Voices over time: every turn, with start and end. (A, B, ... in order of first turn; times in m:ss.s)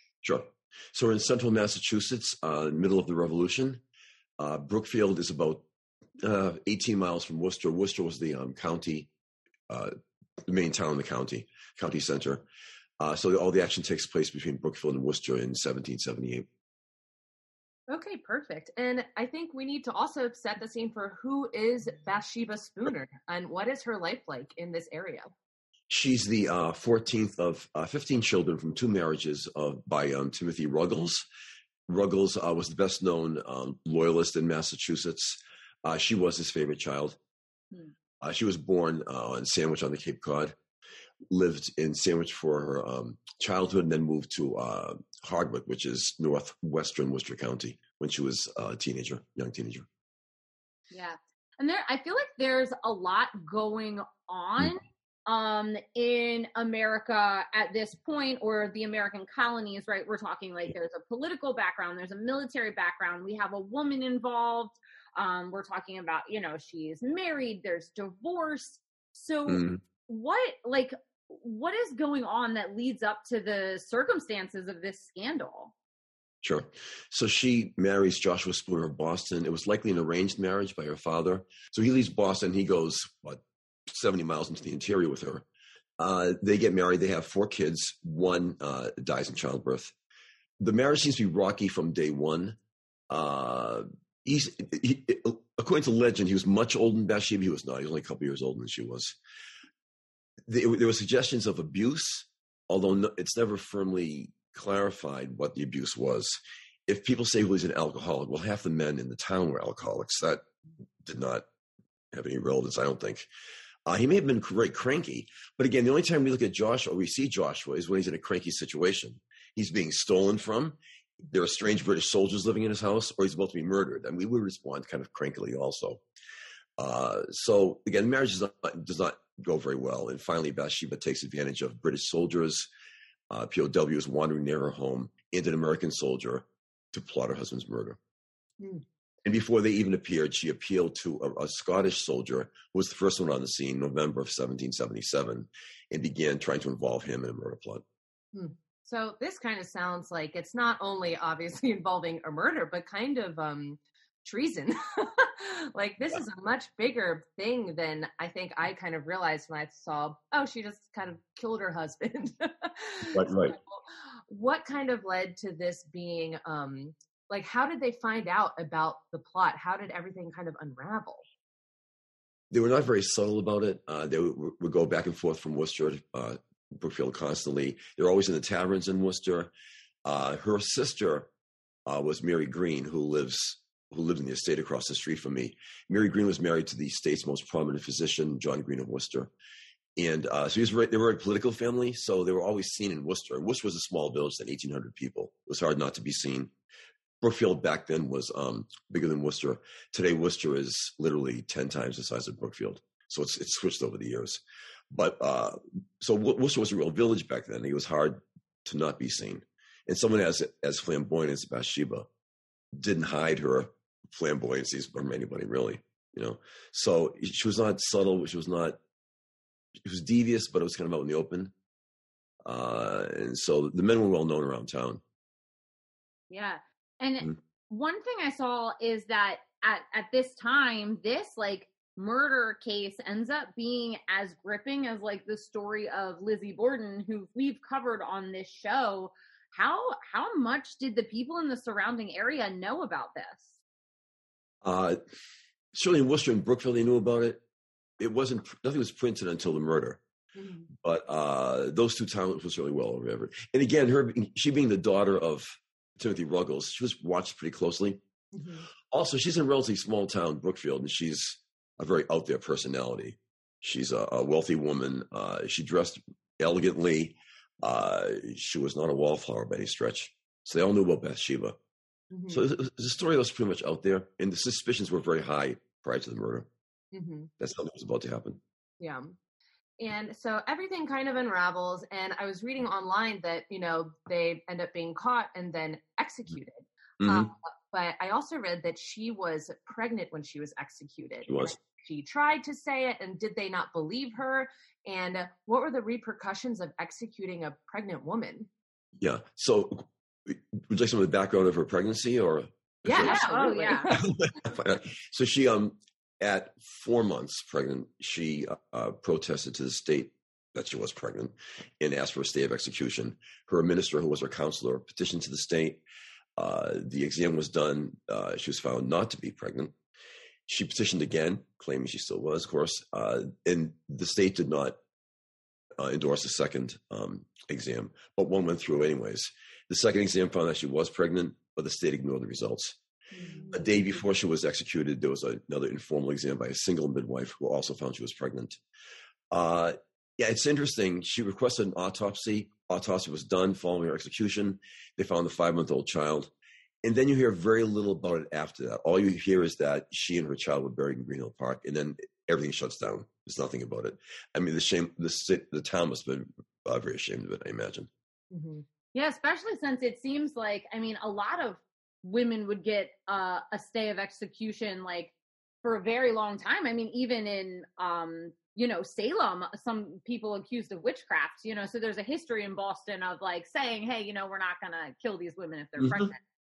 0:00.2-0:03.8 A
0:04.4-0:05.6 A
0:06.2-0:09.1 A
0:09.7-0:12.4 A
0:13.0-0:16.4 A
0:17.9-0:25.3 B
0:25.9-0:31.2 A
0:31.9-0:37.2 A
0:38.2-0:40.6 A
0:41.3-0:49.9 A
0:50.9-1:15.7 C
1:09.5-1:09.8 A
1:16.4-1:25.4 A
1:26.0-1:29.9 A
1:30.6-1:32.6 A
1:33.1-1:39.2 A
1:40.4-1:50.4 A
1:51.0-1:51.4 A
1:52.1-1:53.3 A
1:53.8-2:06.0 A
2:06.8-2:12.7 A
2:13.3-2:18.0 A
2:19.2-2:27.8 A
2:28.3-2:51.2 B
2:43.1-2:43.5 A
2:52.5-2:59.5 A
3:00.0-3:01.3 A
3:01.9-3:09.3 A
3:10.0-3:16.5 A
3:17.2-3:32.1 A
3:32.7-3:38.8 A
3:39.8-3:41.5 A
3:42.4-3:45.0 A
3:46.3-4:03.6 C
4:04.6-4:05.0 A
4:05.7-4:07.4 A
4:08.0-4:10.0 A
4:10.3-4:10.7 B
4:10.8-4:18.0 A
4:18.3-4:18.7 B
4:18.9-4:31.6 A
4:32.1-4:32.4 B
4:32.3-4:36.5 A
4:36.9-4:37.3 B
4:37.4-4:38.4 A
4:38.8-4:39.2 B
4:39.8-4:58.5 B
4:47.0-4:47.3 A
4:51.3-4:51.5 A
4:59.0-5:15.8 A
5:02.8-5:04.0 B
5:03.0-5:04.0 C
5:16.4-5:19.7 A
5:20.5-5:24.8 A
5:25.8-5:32.8 A
5:33.2-5:33.4 B
5:33.2-5:33.7 C
5:33.5-5:38.6 A
5:39.3-5:46.3 A
5:46.8-5:57.9 A
5:58.3-5:58.6 B
5:58.9-6:16.2 C
6:15.8-6:16.1 A